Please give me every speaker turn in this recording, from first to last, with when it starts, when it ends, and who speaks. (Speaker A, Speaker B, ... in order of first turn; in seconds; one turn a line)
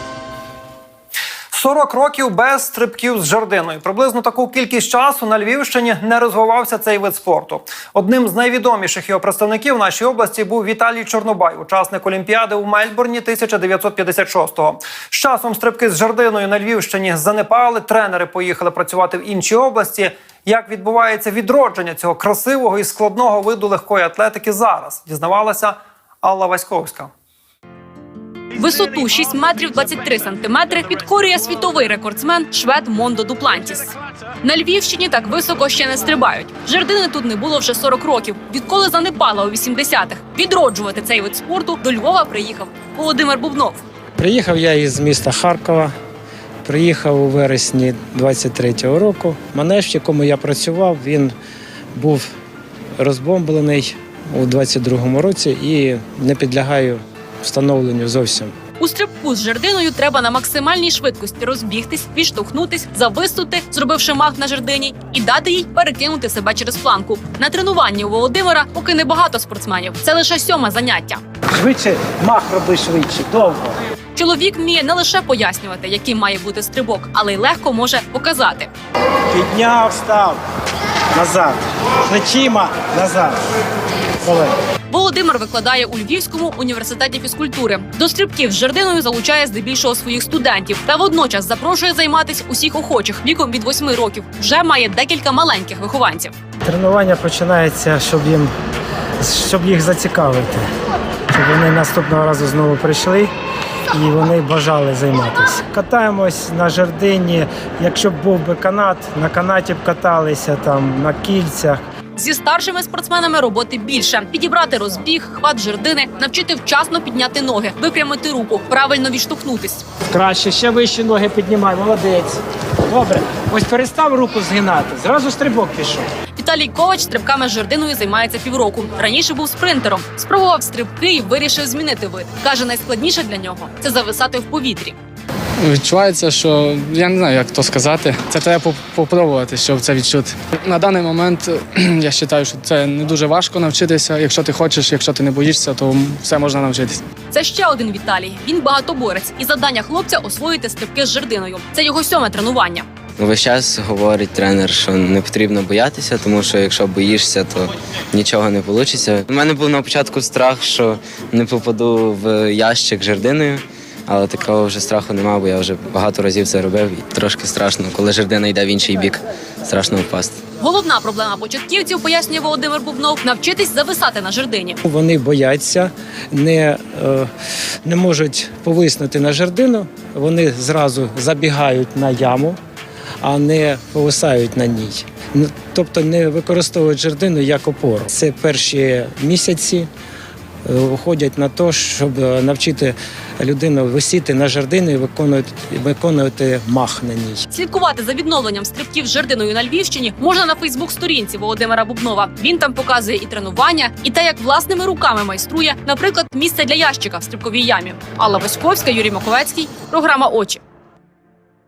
Speaker A: 1.5-27.1
Speaker B: 28.6-33.9
Speaker B: 34.4-43.8
Speaker C: 44.2-45.9
Speaker C: 46.6-51.3
Speaker C: 51.9-52.3
Speaker C: 53.0-58.5
Speaker B: 58.8-71.2
Speaker C: 71.5-73.7
Speaker B: 74.2-78.7
Speaker C: 79.3-80.4
Speaker C: 81.2-83.4
Speaker C: 84.2-84.5
Speaker B: 84.9-96.3
Speaker C: 96.6-98.5
Speaker C: 99.2-100.7
Speaker C: 101.3-103.3
Speaker C: 103.9-111.8
Speaker B: 112.1-119.8
Speaker C: 120.1-126.0
Speaker B: 126.3-134.9
Speaker D: 135.6-147.0
Speaker B: 147.3-152.8
Speaker E: 153.2-170.4
Speaker B: 170.6-174.8
Speaker C: 174.8-177.3
Speaker C: 177.8-182.6
Speaker C: 183.2-189.9
Speaker C: 190.7-197.4
Speaker B: 197.5-210.6